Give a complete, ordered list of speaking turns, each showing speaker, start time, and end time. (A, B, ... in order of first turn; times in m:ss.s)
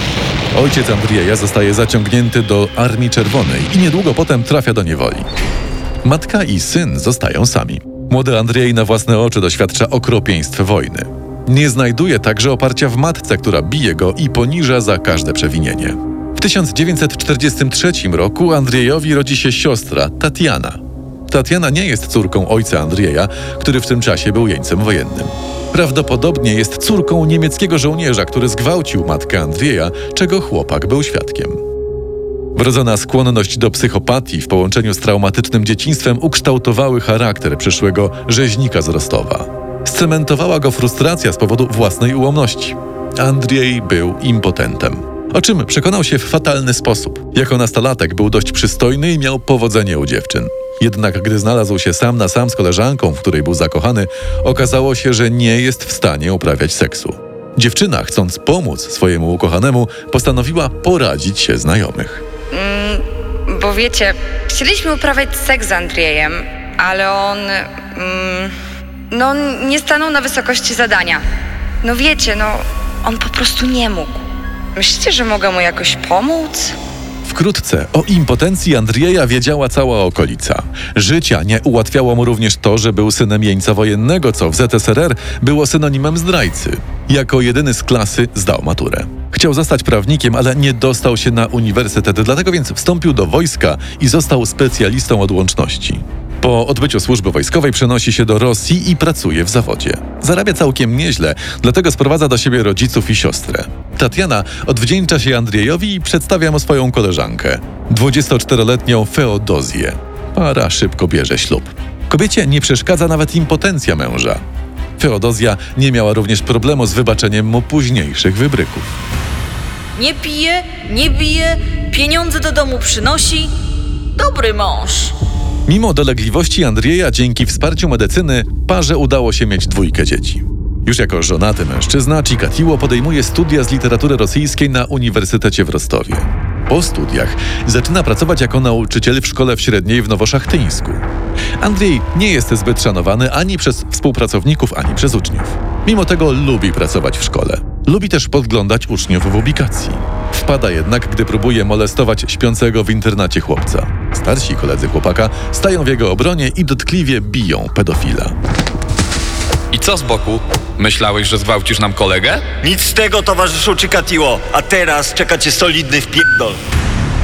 0:00.5-0:05.3 A
0:06.0-0:31.6 A
0:32.6-1:02.2 A
1:02.5-1:08.5 B
1:09.1-1:11.2 B
1:11.8-1:14.2 B
1:14.8-1:16.8 B
1:17.2-1:54.4 A
1:55.0-1:58.9 A
2:00.0-2:03.5 C
2:04.2-2:05.1 C
2:05.7-2:21.0 A
2:21.6-2:38.3 A
2:39.7-2:42.5 D
2:42.6-2:46.6 E